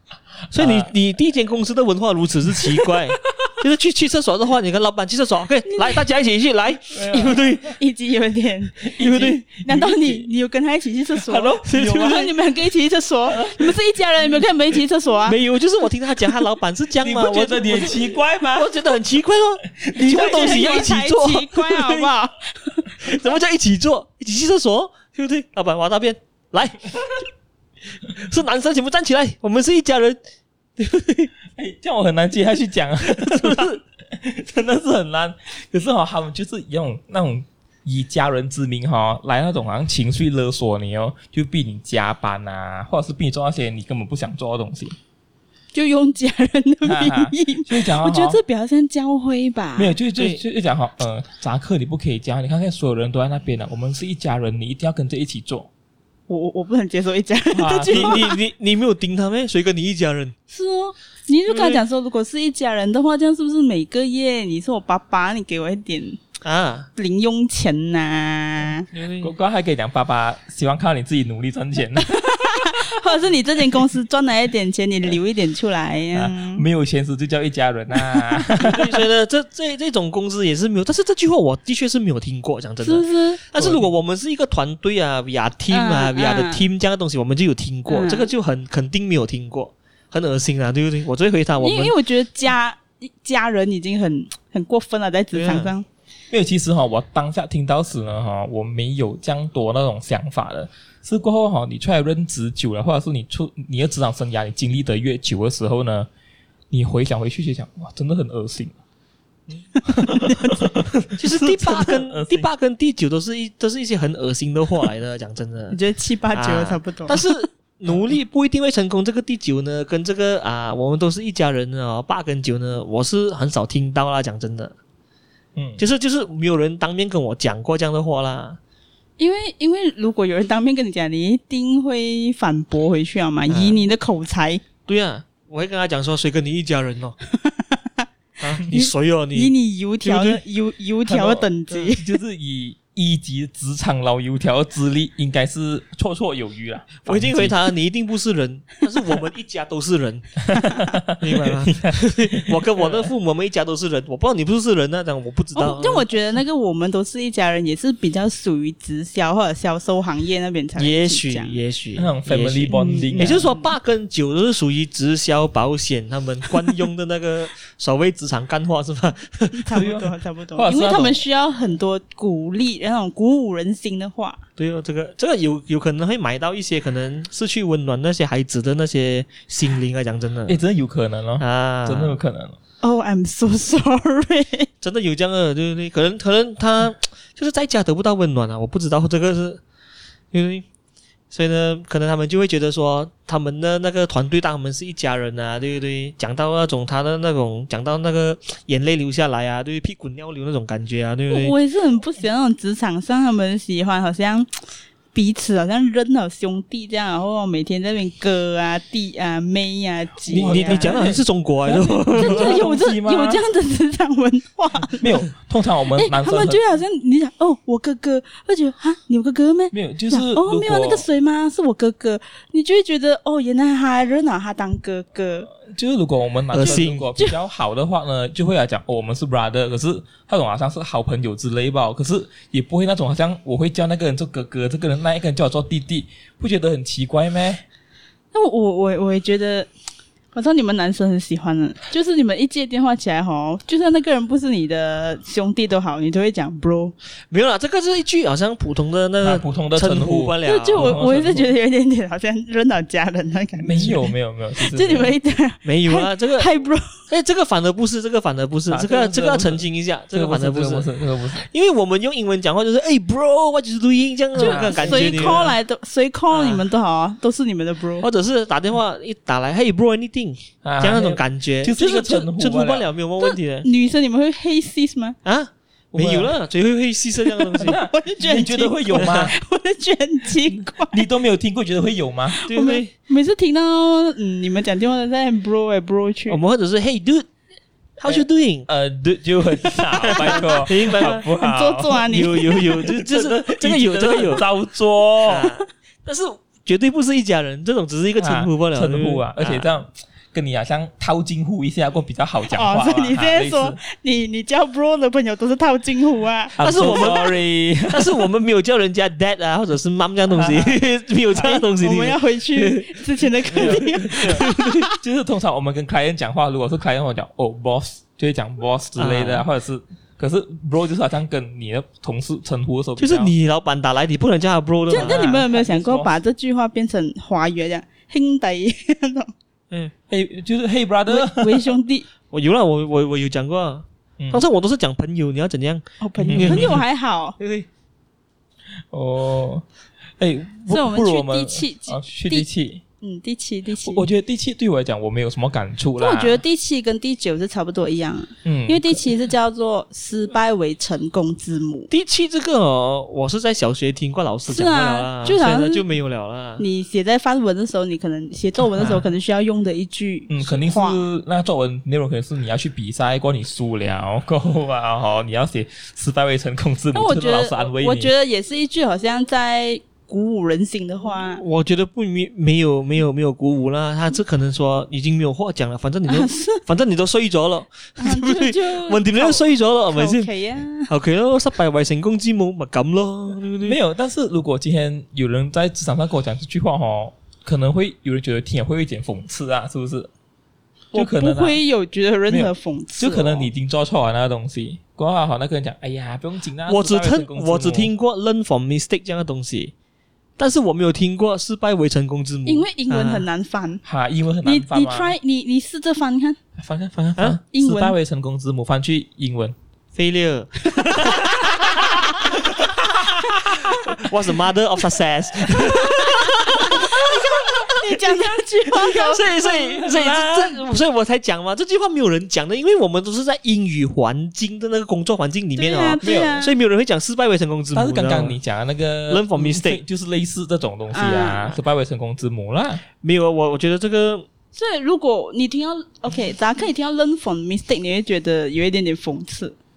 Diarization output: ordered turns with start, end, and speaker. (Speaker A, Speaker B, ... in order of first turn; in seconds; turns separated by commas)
Speaker A: 0.5-0.9, Speaker B: 0.5-7.6, Speaker C: 5.7-6.0, Speaker A: 6.9-7.7, Speaker C: 7.1-15.4, Speaker A: 8.8-10.3, Speaker B: 9.0-9.4, Speaker A: 11.2-12.3, Speaker B: 11.7-12.2, Speaker A: 13.3-13.7, Speaker B: 15.2-22.1, Speaker A: 17.0-18.8, Speaker A: 19.7-20.8, Speaker C: 20.0-22.9, Speaker B: 23.0-27.0, Speaker B: 28.1-30.2, Speaker B: 30.8-31.3, Speaker A: 31.5-45.0, Speaker B: 33.2-33.7, Speaker C: 45.7-50.0, Speaker A: 46.8-48.4, Speaker A: 49.8-55.7, Speaker B: 50.1-50.4, Speaker C: 56.3-58.4, Speaker A: 57.5-58.2, Speaker B: 57.9-60.3, Speaker C: 60.5-66.2, Speaker B: 61.5-61.8, Speaker B: 66.4-66.9, Speaker C: 67.0-68.9, Speaker B: 68.9-69.3, Speaker A: 69.2-72.1, Speaker C: 72.0-76.6, Speaker A: 76.1-79.0, Speaker C: 78.0-78.4, Speaker B: 78.6-91.9, Speaker C: 82.8-83.4, Speaker A: 83.6-83.9, Speaker C: 85.7-86.6, Speaker C: 87.9-88.3, Speaker C: 91.6-95.8, Speaker B: 95.3-95.7, Speaker A: 96.3-106.1, Speaker A: 106.7-108.8, Speaker C: 109.9-110.7, Speaker A: 109.9-112.5, Speaker B: 111.2-115.8, Speaker C: 115.7-117.5, Speaker B: 116.3-124.7, Speaker A: 125.5-125.8, Speaker B: 125.8-128.6, Speaker C: 129.2-134.6, Speaker B: 133.5-133.8, Speaker B: 134.9-137.2, Speaker C: 137.3-138.0, Speaker B: 138.4-139.5, Speaker C: 138.6-142.1, Speaker B: 140.0-140.4, Speaker A: 141.1-147.6, Speaker B: 147.0-150.4, Speaker A: 150.4-153.1, Speaker C: 150.5-150.9, Speaker B: 151.2-156.1, Speaker C: 155.5-161.6, Speaker B: 160.8-169.9, Speaker A: 162.0-163.5, Speaker C: 162.7-163.6, Speaker C: 169.5-174.4, Speaker A: 169.7-171.2, Speaker B: 174.6-180.6, Speaker A: 180.5-182.6, Speaker B: 181.4-182.2, Speaker C: 182.8-184.7, Speaker B: 184.8-189.6, Speaker B: 190.3-190.6, Speaker B: 191.3-201.5, Speaker C: 201.3-204.5, Speaker C: 205.1-211.1, Speaker A: 210.3-213.4, Speaker B: 210.3-212.6, Speaker C: 212.1-215.2, Speaker A: 215.0-216.6, Speaker C: 215.9-225.5, Speaker A: 219.7-221.1, Speaker A: 225.5-237.6, Speaker B: 226.5-227.1, Speaker C: 226.6-227.3, Speaker C: 238.3-239.7, Speaker C: 240.3-246.9, Speaker B: 247.3-251.0, Speaker A: 249.2-251.5, Speaker C: 250.4-256.9, Speaker A: 253.6-255.1, Speaker B: 255.6-256.5, Speaker B: 257.1-265.5, Speaker A: 258.7-261.4, Speaker A: 264.3-265.5, Speaker C: 264.4-268.1, Speaker B: 266.3-266.6, Speaker B: 268.0-273.7, Speaker A: 270.6-272.9, Speaker C: 273.2-275.2, Speaker B: 275.2-277.8, Speaker A: 275.9-276.3, Speaker C: 277.2-281.0, Speaker A: 277.6-279.3, Speaker B: 278.9-279.3, Speaker A: 280.6-282.4, Speaker C: 282.3-286.4, Speaker B: 282.5-282.9, Speaker B: 286.3-287.2, Speaker B: 288.0-288.7, Speaker A: 288.0-295.5, Speaker B: 290.0-291.2, Speaker C: 290.2-292.6, Speaker B: 292.1-294.4, Speaker B: 295.2-299.7, Speaker A: 298.2-303.8, Speaker C: 302.5-306.9, Speaker A: 306.6-308.2, Speaker B: 306.6-307.4, Speaker B: 307.9-314.8, Speaker A: 310.3-310.8, Speaker C: 311.4-314.9, Speaker A: 313.5-323.3, Speaker B: 319.0-319.4, Speaker B: 323.0-325.4, Speaker C: 324.9-329.3, Speaker A: 324.9-326.1, Speaker A: 330.1-331.7, Speaker C: 331.1-332.1, Speaker B: 332.3-336.8, Speaker A: 334.2-334.4, Speaker C: 336.0-337.4, Speaker A: 336.2-336.8, Speaker B: 337.4-337.7, Speaker A: 338.9-339.6, Speaker A: 340.2-342.8, Speaker C: 340.7-342.5, Speaker C: 343.0-344.1, Speaker A: 343.8-346.4, Speaker C: 346.0-351.9, Speaker A: 348.4-349.1, Speaker B: 351.9-356.6, Speaker C: 354.5-355.8, Speaker C: 356.6-361.0, Speaker A: 360.3-368.1, Speaker C: 366.9-371.4, Speaker B: 371.4-380.3, Speaker C: 376.1-376.6, Speaker C: 378.0-380.9, Speaker B: 380.9-383.8, Speaker A: 383.6-390.1, Speaker C: 390.9-393.5, Speaker A: 390.9-391.6, Speaker A: 392.3-397.9, Speaker B: 396.7-399.7, Speaker B: 400.4-403.3, Speaker C: 402.4-403.8, Speaker A: 403.8-405.1, Speaker C: 404.4-406.4, Speaker A: 406.6-409.5, Speaker C: 407.5-407.9, Speaker B: 409.9-412.2, Speaker A: 412.4-413.4, Speaker C: 413.5-413.8, Speaker B: 413.6-428.4, Speaker C: 415.5-420.0, Speaker A: 419.8-420.6, Speaker C: 425.6-426.5, Speaker A: 426.0-426.4, Speaker A: 427.7-432.8, Speaker B: 429.1-429.8, Speaker C: 430.9-431.6, Speaker B: 433.0-434.2, Speaker C: 434.5-439.6